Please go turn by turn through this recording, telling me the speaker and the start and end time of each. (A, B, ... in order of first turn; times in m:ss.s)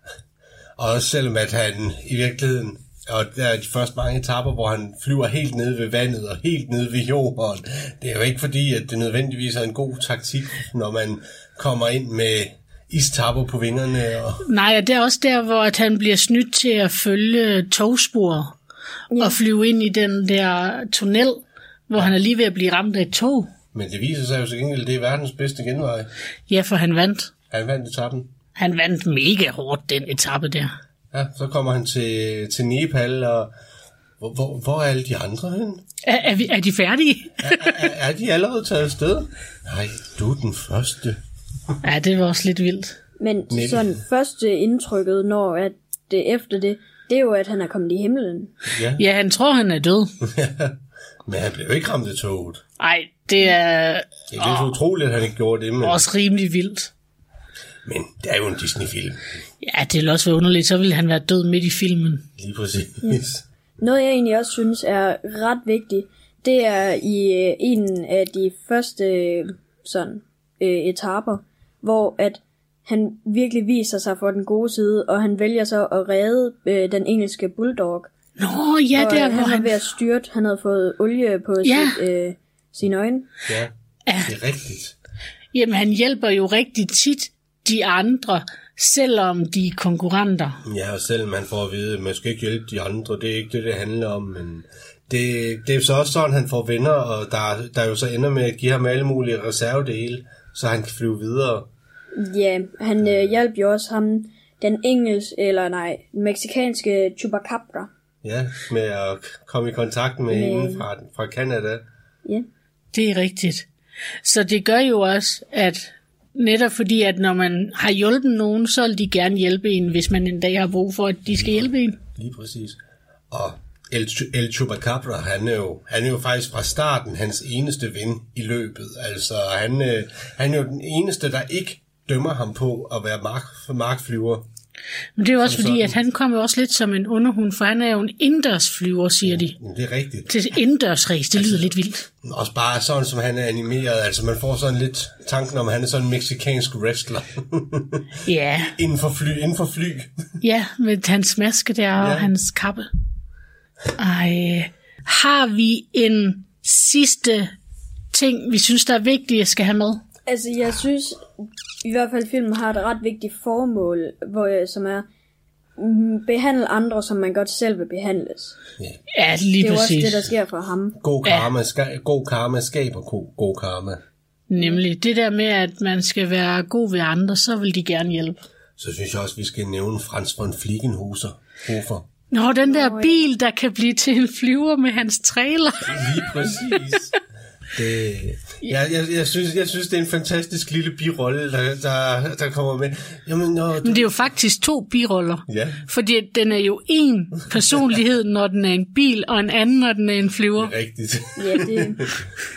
0:00.8-0:14.4 A
0:14.4-0:18.5 B
0:19.1-0:19.4 C
0:19.2-0:23.5 B
0:23.7-0:26.1 A
0:26.5-0:27.3 B
0:27.5-0:28.3 A
0:28.6-0:30.8 B
0:31.1-0:33.5 A
0:34.2-0:35.8 A
0:36.1-0:37.8 B
0:37.4-0:41.2 A
0:41.8-0:43.0 B
0:43.2-0:48.5 C
0:43.5-0:44.0 A
0:48.7-0:49.0 A
0:49.0-0:50.1 B
0:50.3-0:52.6 A
0:52.8-0:54.8 B
0:54.3-0:56.0 A
0:55.8-0:56.9 B
0:57.8-0:59.3 A
0:59.6-1:02.3 B
1:02.4-1:03.4 A
1:03.8-1:18.1 C
1:18.4-1:19.8 B
1:19.0-1:23.3 C
1:21.6-1:22.0 B
1:24.1-1:24.3 B
1:24.2-1:25.0 A
1:25.5-1:30.6 B
1:30.7-1:41.7 A
1:42.2-1:47.9 C
1:43.0-1:43.3 A
1:48.2-1:51.8 A
1:50.3-1:50.9 C
1:52.9-1:53.7 B
1:54.2-2:02.0 B
2:01.3-2:02.8 A
2:03.3-2:14.5 A
2:15.2-2:19.6 B
2:15.4-2:16.0 A
2:19.2-2:20.3 A
2:20.3-2:22.1 B
2:21.4-2:21.7 A
2:22.2-2:28.0 A
2:28.2-2:28.8 B
2:28.8-2:30.1 A
2:30.4-2:32.9 B
2:32.0-2:32.3 A
2:34.0-2:37.5 B
2:38.1-2:40.0 B
2:40.3-2:41.3 C
2:41.8-2:45.1 C
2:45.8-2:48.6 C
2:49.1-2:50.2 B
2:49.6-2:51.0 C
2:51.0-2:54.0 A
2:51.2-2:51.5 B
2:54.5-2:58.4 B
2:58.8-3:02.1 A
3:02.3-3:06.2 B
3:02.6-3:03.2 C
3:05.9-3:07.1 A
3:07.8-3:14.1 A
3:13.8-3:20.7 B
3:15.5-3:15.8 A
3:20.6-3:22.0 A
3:21.4-3:22.0 C